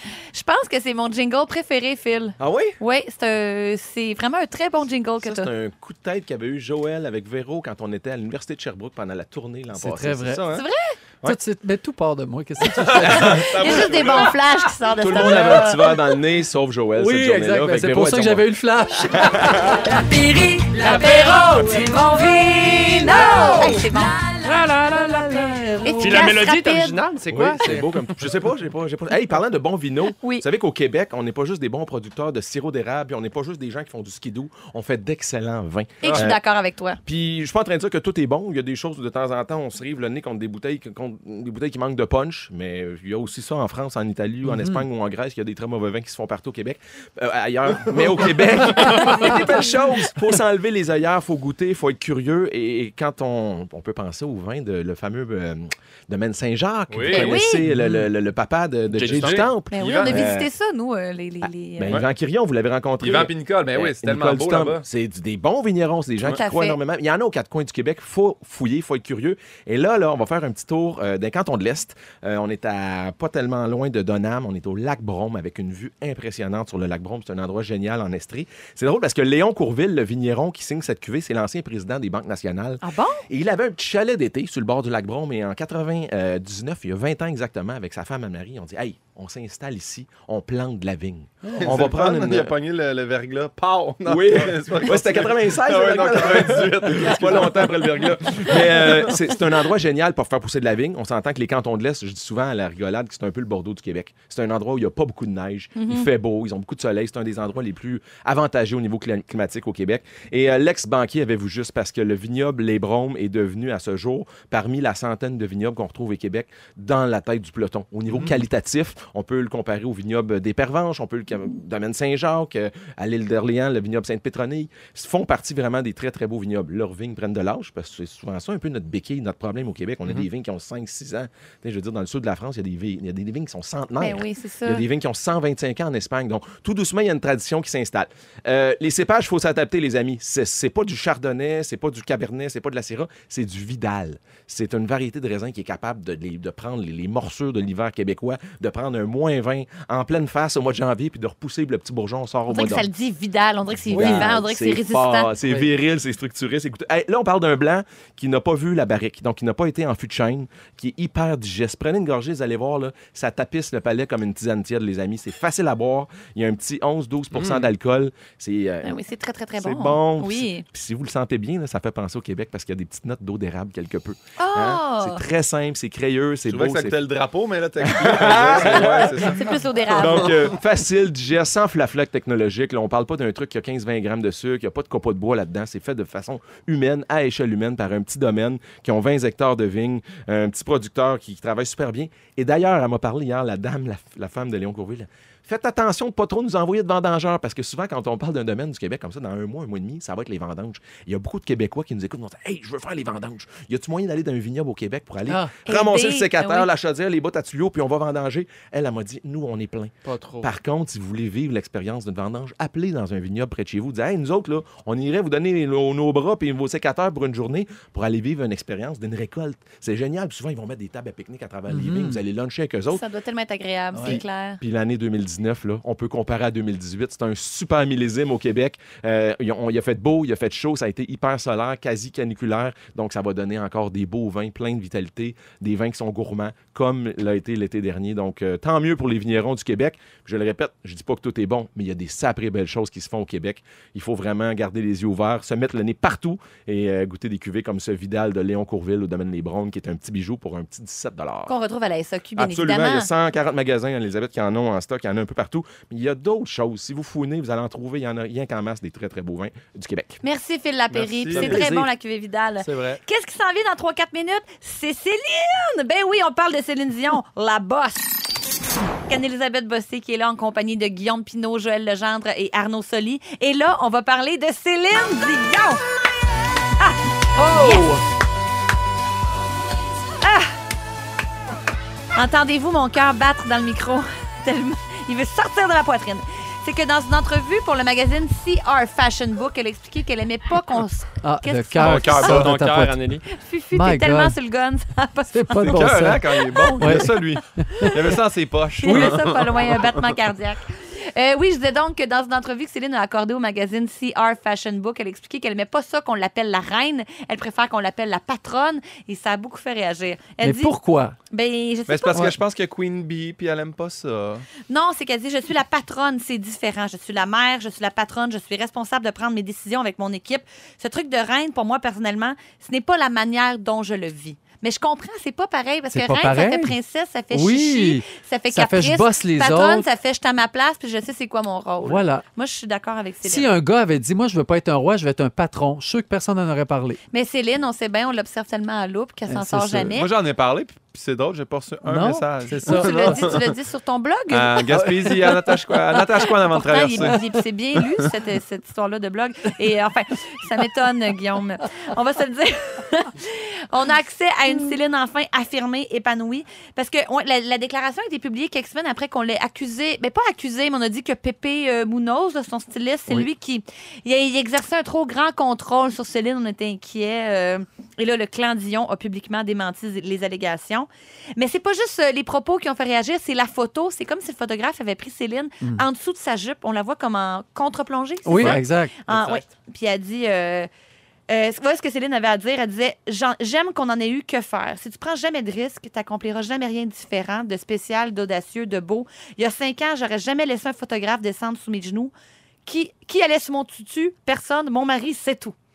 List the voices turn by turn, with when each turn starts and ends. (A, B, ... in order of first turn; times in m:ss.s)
0:00.3-0:05.5 A
0:02.4-0:02.8 B
0:05.2-0:10.6 B
0:09.7-0:10.4 C
0:10.5-0:10.9 A
0:11.2-0:13.5 C
0:12.8-0:14.4 D
0:13.0-0:16.0 A
0:15.0-0:18.4 B
0:17.0-0:19.9 C
0:19.2-0:19.7 B
0:19.8-0:24.5 A
0:21.0-0:21.7 E
0:23.0-0:23.8 E
0:24.4-0:28.1 E
0:25.4-0:27.0 A
0:27.3-0:36.4 B
0:36.0-0:37.0 A
0:37.0-1:00.5 B
0:44.4-0:44.8 C
0:56.9-0:57.2 E
0:57.0-0:57.4 D
0:57.1-0:57.6 A
0:57.6-0:58.1 C
0:58.9-0:59.5 E
0:59.0-1:00.3 D
0:59.7-1:02.0 A
1:01.4-1:32.5 B
1:03.0-1:04.8 D
1:06.3-1:06.8 A
1:22.8-1:23.2 A
1:31.5-1:39.1 D
1:34.0-2:32.9 B
1:45.8-1:46.1 A
2:14.0-2:14.8 A
2:32.5-2:35.3 A
2:33.8-2:49.0 B
2:33.9-2:34.3 C
2:47.3-2:47.6 E
2:48.8-2:50.6 A
2:49.6-2:57.0 B
2:54.4-2:55.2 A
2:56.5-3:00.4 D
2:57.8-2:59.4 B
2:59.3-3:00.5 A
2:59.9-3:43.0 B
3:25.3-3:25.5 C
3:25.7-3:26.7 A
3:30.0-3:30.5 E
3:41.7-3:42.2 C
3:42.9-3:44.6 A
3:43.9-3:44.2 C
3:44.6-4:11.5 B
4:11.5-4:13.1 A
4:12.4-4:20.2 B
4:20.2-4:28.1 A
4:20.9-4:21.8 D
4:21.3-4:21.6 E
4:22.6-4:23.0 E
4:29.1-4:35.8 A
4:36.8-4:37.9 A
4:37.4-4:38.0 C
4:40.2-4:40.5 A
4:42.1-4:52.5 A
4:51.2-4:53.0 C
4:51.8-4:52.4 D
4:51.9-4:53.3 E
4:53.3-4:57.3 A
4:53.7-4:54.4 C
4:55.3-4:56.2 C
4:55.6-4:59.9 D
4:56.7-4:57.9 C
4:57.8-4:58.1 A
4:58.8-5:10.7 A
4:58.9-4:59.1 C
5:10.4-5:11.2 C
5:11.3-5:12.4 A
5:11.9-5:14.4 D
5:14.7-5:33.5 A
5:25.9-5:26.7 C
5:27.3-5:29.9 C
5:31.8-5:32.2 C
5:33.2-5:37.0 C
5:37.1-5:40.1 A
5:39.3-5:40.0 C
5:39.9-5:43.5 D
5:41.8-5:43.4 C
5:42.6-6:20.7 A
5:44.3-5:47.3 D
6:18.2-6:18.9 C
6:18.4-6:19.4 E
6:21.3-6:32.1 A
6:32.6-6:35.5 A